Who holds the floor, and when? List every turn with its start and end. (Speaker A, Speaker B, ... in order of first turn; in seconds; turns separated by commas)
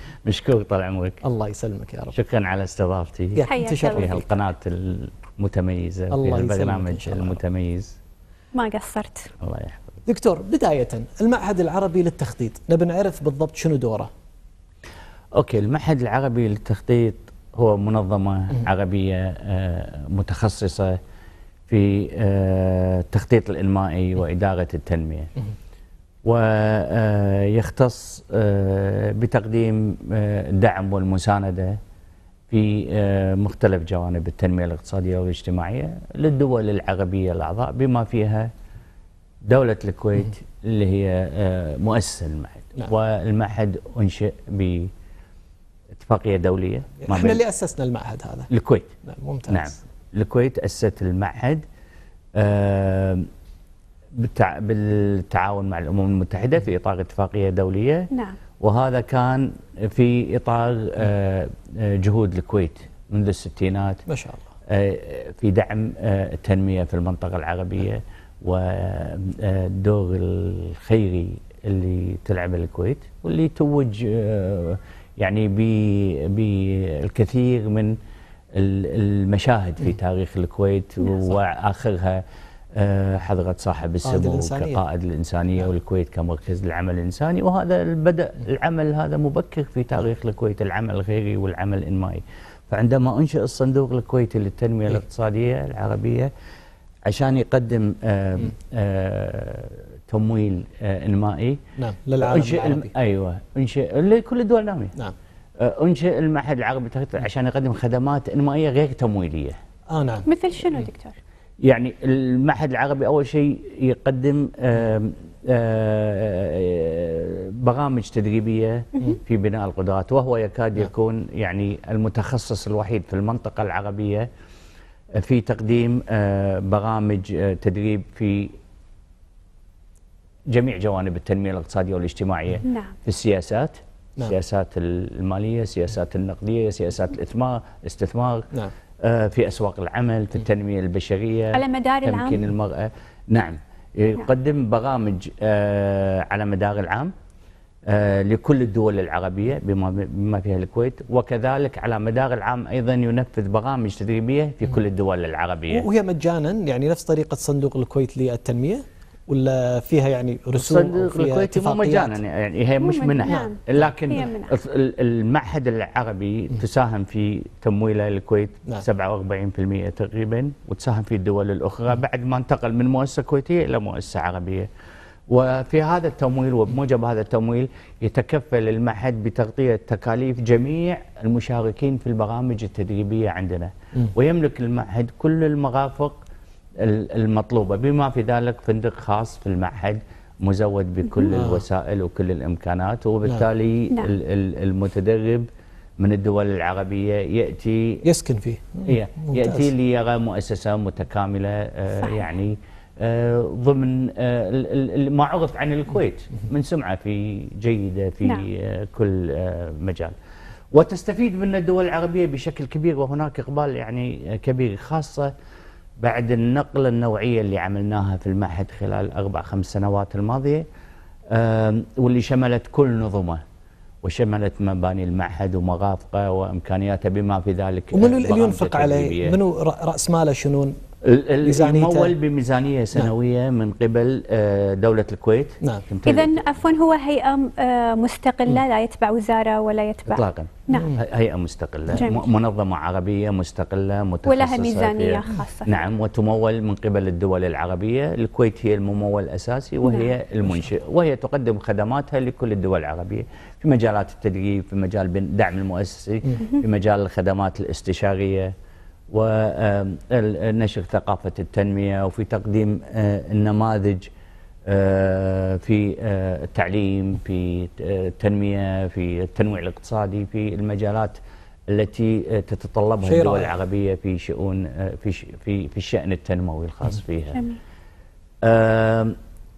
Speaker A: 0.2-1.2, Speaker B: 1.2-2.1, Speaker A: 2.1-8.0, Speaker B: 3.3-4.2, Speaker C: 3.5-4.1, Speaker B: 6.1-7.4, Speaker C: 8.5-9.3, Speaker A: 9.4-10.0, Speaker B: 10.0-14.1, Speaker A: 15.3-21.0, Speaker A: 21.7-25.3, Speaker A: 26.2-31.8, Speaker A: 32.5-38.5, Speaker A: 39.4-44.9, Speaker A: 45.9-47.4, Speaker B: 47.0-48.5, Speaker A: 48.5-48.9, Speaker B: 49.0-49.8, Speaker A: 49.5-51.6, Speaker A: 52.3-53.3, Speaker A: 54.1-58.1, Speaker C: 58.1-58.4, Speaker A: 58.6-64.0, Speaker B: 64.1-64.5, Speaker A: 64.7-78.0, Speaker A: 78.5-82.2, Speaker A: 82.7-96.3, Speaker B: 84.0-84.8, Speaker A: 97.0-101.6, Speaker B: 101.8-102.9, Speaker A: 102.2-104.9, Speaker A: 105.6-109.6, Speaker B: 109.9-110.3, Speaker C: 110.3-111.2, Speaker A: 111.6-124.3, Speaker A: 125.1-128.6, Speaker A: 130.5-147.1, Speaker C: 132.6-132.9, Speaker C: 141.5-142.4, Speaker A: 147.9-155.8, Speaker B: 155.7-162.2, Speaker A: 160.5-174.7, Speaker C: 162.8-164.5, Speaker A: 175.3-186.2, Speaker A: 186.8-195.5, Speaker B: 191.3-191.6, Speaker A: 196.0-198.0, Speaker B: 198.0-199.7, Speaker A: 198.8-210.1, Speaker A: 210.7-215.3, Speaker A: 216.0-220.6, Speaker A: 221.3-223.4, Speaker A: 224.0-229.4, Speaker B: 227.9-230.8, Speaker A: 231.0-236.6, Speaker B: 231.4-232.1, Speaker C: 236.0-240.9, Speaker A: 240.1-258.5, Speaker B: 240.7-241.0, Speaker C: 241.9-242.3, Speaker C: 244.2-245.8, Speaker C: 249.8-250.1, Speaker A: 259.1-264.1, Speaker A: 264.6-277.4, Speaker B: 273.0-273.5, Speaker C: 277.3-277.6, Speaker A: 278.4-279.2